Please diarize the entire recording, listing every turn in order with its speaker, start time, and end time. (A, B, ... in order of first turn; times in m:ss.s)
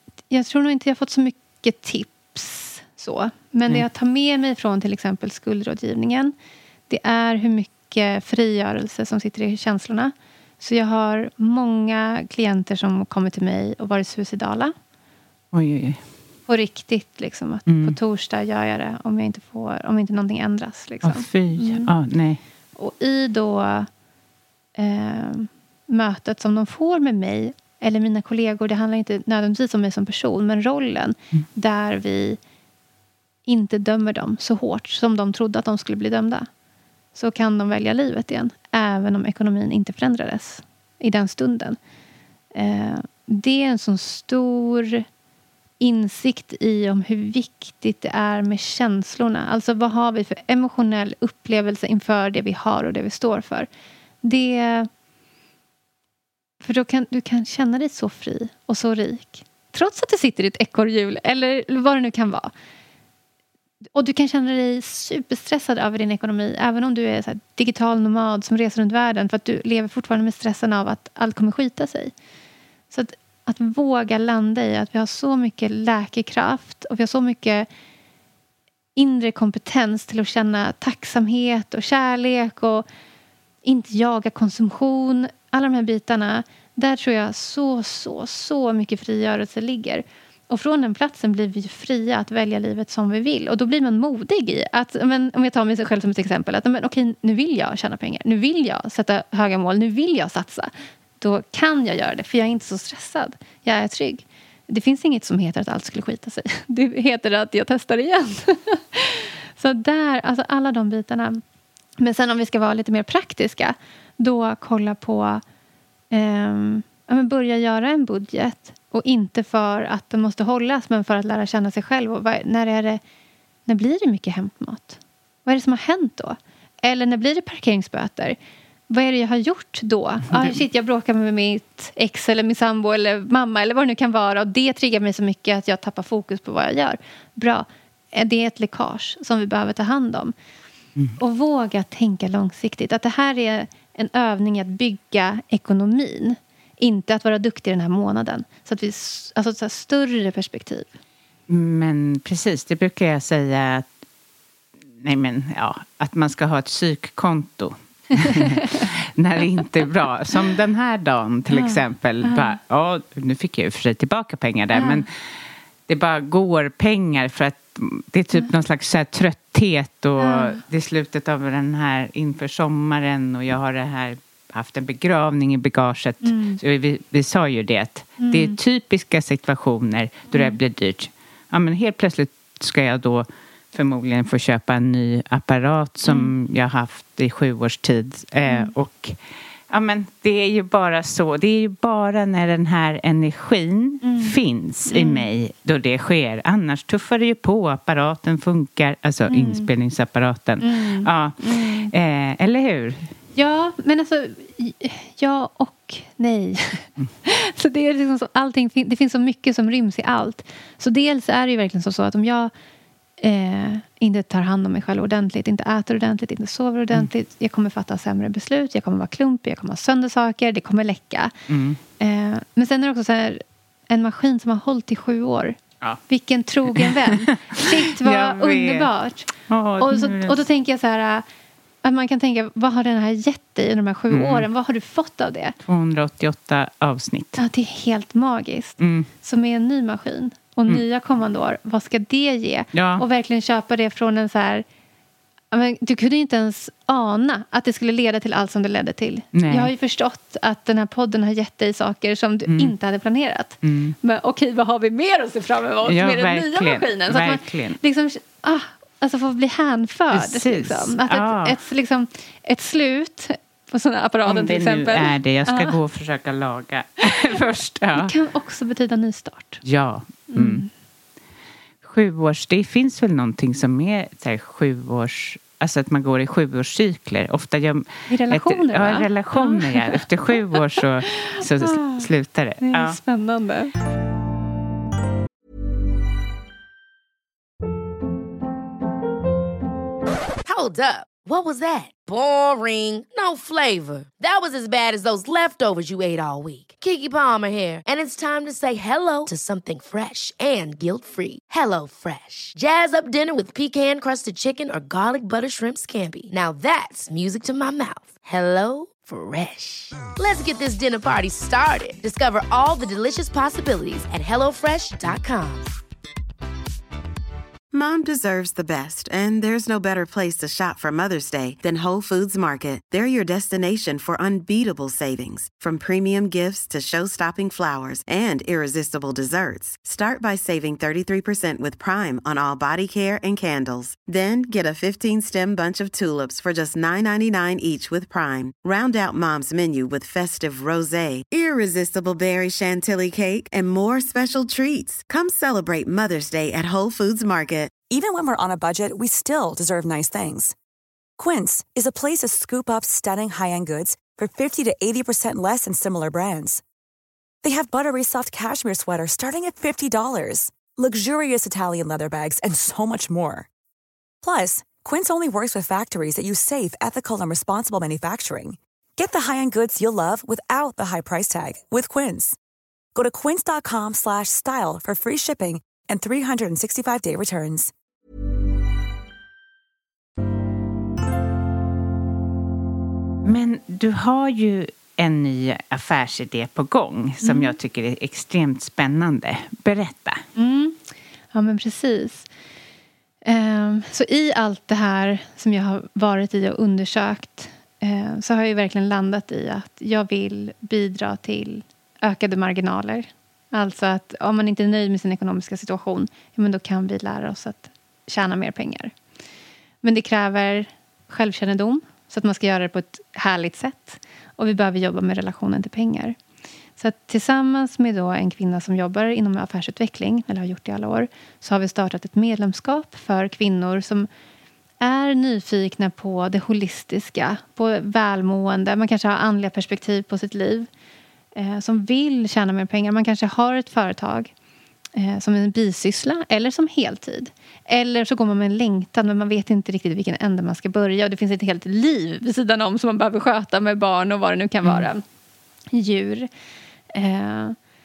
0:00.3-0:06.4 A
0:06.9-0:14.7 A
0:15.5-0:16.0 B
0:16.5-0:21.9 A
0:17.7-0:18.0 B
0:21.0-0:22.4 B
0:22.8-0:23.9 A
0:24.8-0:32.4 A
0:33.5-0:36.5 A
0:37.2-0:41.8 A
0:42.5-0:45.0 A
0:45.8-0:53.7 A
0:54.2-0:54.9 A
0:56.6-1:02.5 A
1:04.0-1:12.1 A
1:12.9-1:17.7 A
1:19.0-1:22.8 A
1:23.6-1:51.4 A
1:52.0-1:55.4 A
1:56.1-2:03.0 A
2:03.7-2:08.4 A
2:08.9-2:20.3 A
2:10.3-2:10.6 B
2:21.2-2:30.9 A
2:31.5-2:33.9 B
2:35.0-2:45.1 B
2:38.5-2:38.8 A
2:41.5-2:42.6 A
2:44.7-2:45.0 A
2:45.9-3:09.2 B
2:50.2-2:50.6 A
2:56.2-2:56.6 A
2:58.2-2:58.6 A
3:00.3-3:00.6 A
3:06.1-3:06.3 A
3:08.5-3:08.7 A
3:09.7-3:23.1 B
3:14.0-3:14.4 A
3:14.9-3:15.3 A
3:19.3-3:19.7 A
3:20.6-3:21.9 A
3:23.4-3:32.5 A
3:33.2-3:41.3 A
3:41.5-3:41.8 B
3:42.0-3:45.6 A
3:46.1-3:49.3 A
3:46.8-3:48.9 B
3:49.5-3:50.4 B
3:49.8-3:51.2 A
3:51.8-3:55.6 A
3:54.1-3:54.5 B
3:55.6-3:57.4 B
3:57.4-4:04.6 A
3:58.8-3:59.1 B
4:02.7-4:03.0 B
4:05.5-4:25.8 A
4:09.3-4:09.7 B
4:12.5-4:12.7 B
4:13.6-4:14.0 B
4:15.9-4:17.8 B
4:20.1-4:21.6 B
4:24.2-4:28.1 B
4:28.0-4:29.6 A
4:29.6-4:30.6 B
4:30.3-4:30.7 A
4:31.8-4:43.0 B
4:38.1-4:40.0 A
4:41.2-4:42.1 A
4:42.6-4:43.7 A
4:50.4-5:15.7 C
5:17.7-5:47.7 D
5:47.9-5:50.6 E
5:51.2-5:56.6 E
5:57.4-6:03.5 E
6:04.2-6:12.4 E
6:13.0-6:17.7 E
6:23.2-6:30.2 B
6:27.2-6:27.6 A
6:30.4-6:30.8 A
6:31.3-6:32.3 A
6:33.2-6:48.9 A
6:49.8-6:56.2 A
6:56.8-7:04.1 A
7:04.8-7:10.7 A
7:11.4-7:14.3 A
7:15.0-7:25.0 A
7:25.7-7:26.3 A
7:26.9-7:27.6 A